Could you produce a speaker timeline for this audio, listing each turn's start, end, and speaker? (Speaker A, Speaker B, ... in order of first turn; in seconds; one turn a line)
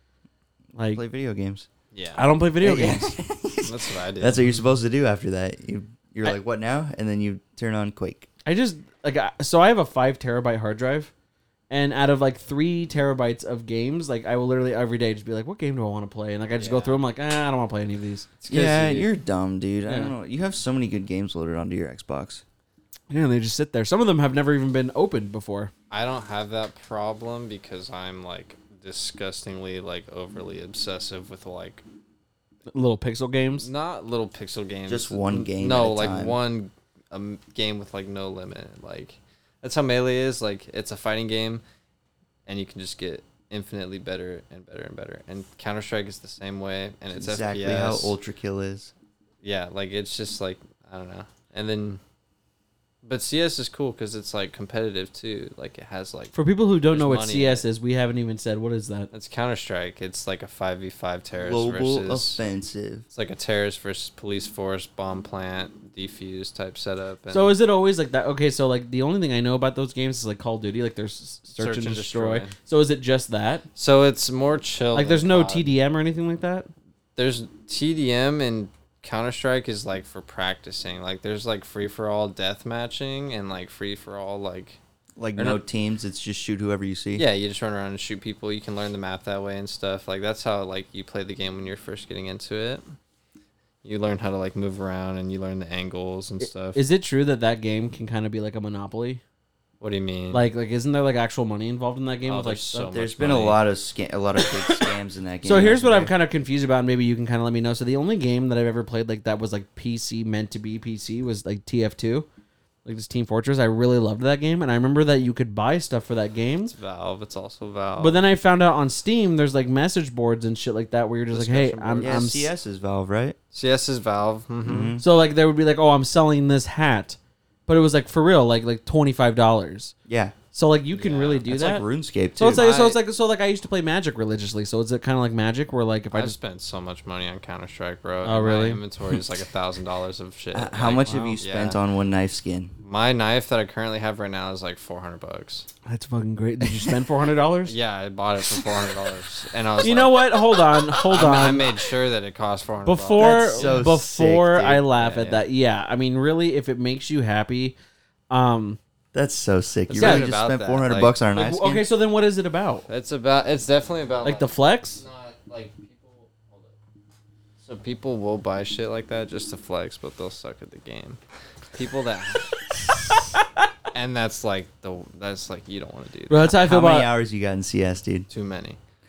Speaker A: 0.8-1.0
Speaker B: 0.9-1.7
Speaker C: 1.9-2.3
Speaker A: 2.2-3.2
Speaker B: 2.6-8.3
Speaker C: 3.6-4.5
Speaker A: 8.4-11.1
Speaker A: 11.7-18.3
Speaker C: 16.6-17.0
Speaker C: 18.4-19.1
Speaker B: 18.5-22.4
Speaker A: 19.9-20.1
Speaker A: 23.1-25.7
Speaker C: 25.9-31.8
Speaker A: 32.7-33.7
Speaker C: 33.6-41.6
Speaker B: 34.9-36.4
Speaker C: 42.5-48.1
Speaker B: 47.2-48.9
Speaker C: 49.4-52.0
Speaker C: 53.0-57.6
Speaker A: 56.3-59.1
Speaker C: 59.1-62.4
Speaker B: 61.4-63.0
Speaker C: 63.1-67.6
Speaker A: 67.3-73.6
Speaker C: 71.5-72.5
Speaker C: 73.8-75.7
Speaker A: 74.9-76.7
Speaker C: 77.2-84.8
Speaker B: 85.2-87.2
Speaker C: 87.2-92.8
Speaker C: 93.8-96.8
Speaker A: 96.4-99.2
Speaker C: 99.8-100.4
Speaker A: 100.3-102.9
Speaker C: 102.2-103.6
Speaker B: 102.9-106.1
Speaker A: 104.4-104.9
Speaker A: 105.4-112.3
Speaker A: 112.8-116.7
Speaker C: 116.7-118.2
Speaker A: 118.0-122.5
Speaker C: 121.3-122.2
Speaker B: 122.0-123.4
Speaker C: 123.5-125.0
Speaker B: 124.6-125.0
Speaker A: 125.0-129.9
Speaker B: 130.1-130.3
Speaker A: 130.5-131.8
Speaker C: 130.9-131.4
Speaker B: 131.4-132.6
Speaker A: 132.4-136.3
Speaker C: 132.5-133.0
Speaker C: 136.1-141.8
Speaker A: 138.2-138.8
Speaker B: 140.5-142.7
Speaker A: 141.1-141.4
Speaker C: 142.8-145.7
Speaker A: 145.8-147.7
Speaker C: 147.7-150.3
Speaker A: 149.8-151.7
Speaker C: 151.1-153.9
Speaker A: 152.8-157.8
Speaker B: 153.2-154.9
Speaker C: 154.9-155.4
Speaker A: 158.3-158.8
Speaker B: 159.1-161.8
Speaker C: 159.9-161.2
Speaker A: 159.9-160.2
Speaker A: 161.3-162.9
Speaker C: 162.9-166.7
Speaker A: 164.2-165.0
Speaker C: 167.6-171.2
Speaker C: 171.7-172.7
Speaker C: 173.9-176.5
Speaker A: 176.3-177.1
Speaker B: 176.5-178.3
Speaker C: 178.3-178.8